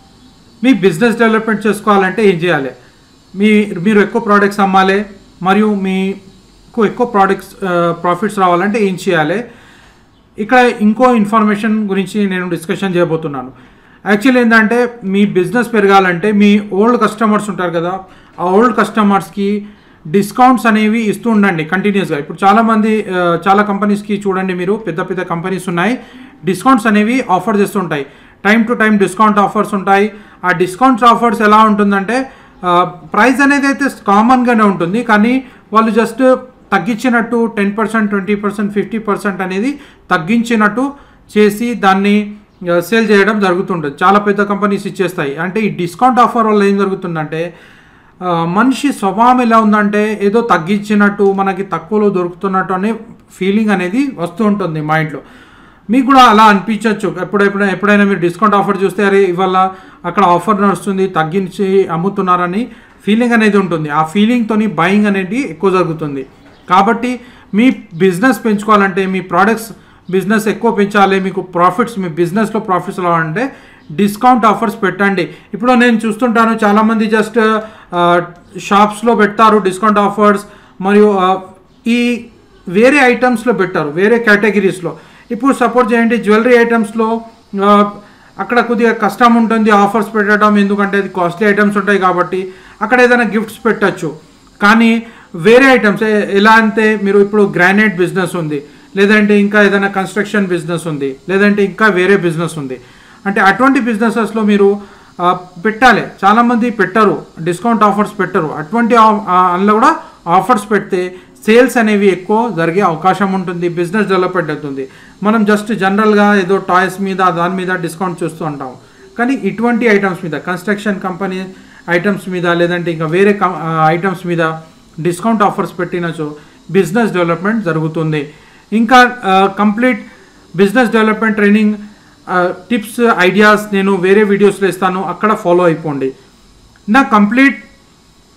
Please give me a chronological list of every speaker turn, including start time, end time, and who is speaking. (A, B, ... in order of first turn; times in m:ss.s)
0:00.6-0:02.7 A
0:03.3-0:06.2 A
0:06.7-0:09.4 A
0:10.4-0:13.5 A
0:14.1-0:42.2 A
0:42.7-0:47.4 A
0:48.2-0:55.2 A
0:55.9-1:34.1 A
1:34.6-2:04.5 A
2:05.0-2:08.2 A
2:08.8-2:10.0 A
2:10.6-2:16.1 A
2:16.9-2:17.6 A